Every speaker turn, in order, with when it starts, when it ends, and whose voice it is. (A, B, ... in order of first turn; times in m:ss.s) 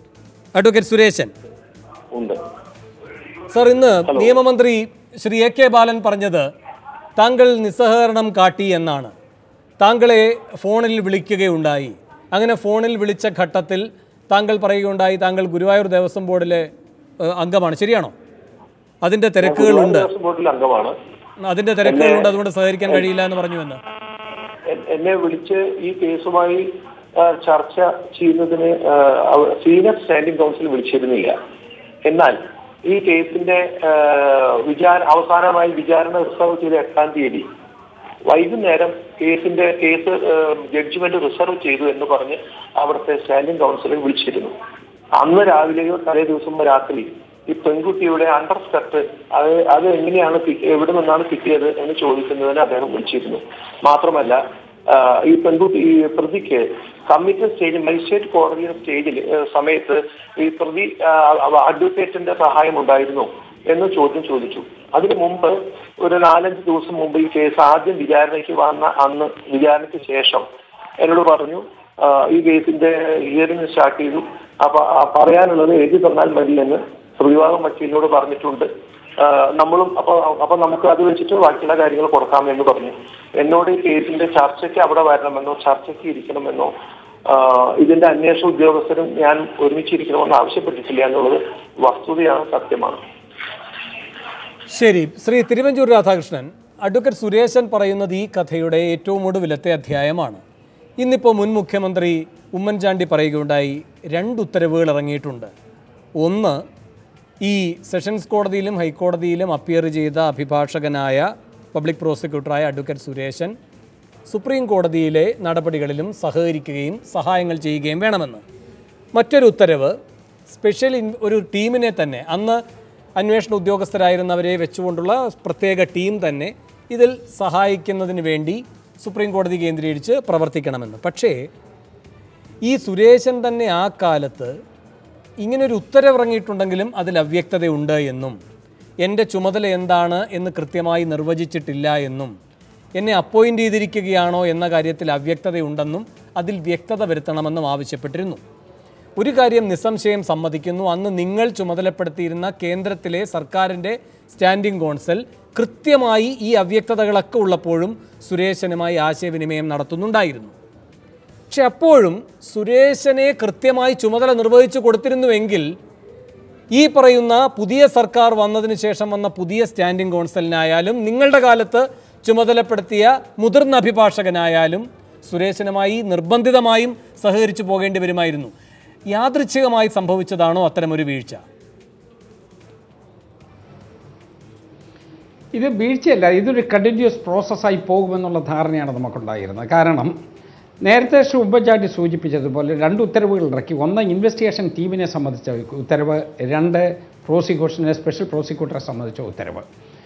0:00.5-0:01.3 A
0:02.1-0:02.4 B
0:03.5-0:06.4 A
0:04.1-0:04.3 B
0:07.2-0:09.1 A
0:09.8-0:16.6 A
0:17.2-0:18.1 A
0:19.0-0:20.1 A
0:19.4-0:20.9 B
0:21.4-0:23.8 A
0:21.8-0:22.3 B
0:24.7-0:31.4 B
0:32.0-0:37.5 B
0:38.3-0:44.5 B
0:45.2-1:10.4 B
1:11.0-1:26.7 B
1:27.3-1:33.0 B
1:34.7-1:40.4 A
1:41.0-1:45.5 A
1:46.2-1:46.6 A
1:47.4-1:53.5 A
1:54.3-1:58.4 A
1:59.1-1:59.9 A
2:00.5-2:02.6 A
2:03.2-2:11.4 A
2:12.6-2:14.5 A
2:15.4-2:18.4 A
2:19.0-2:22.3 A
2:23.0-2:28.4 A
2:29.2-2:40.5 A
2:41.5-2:45.6 A
2:46.7-2:58.5 A
2:59.1-3:01.4 A
3:05.5-3:10.1 C
3:10.8-3:19.6 C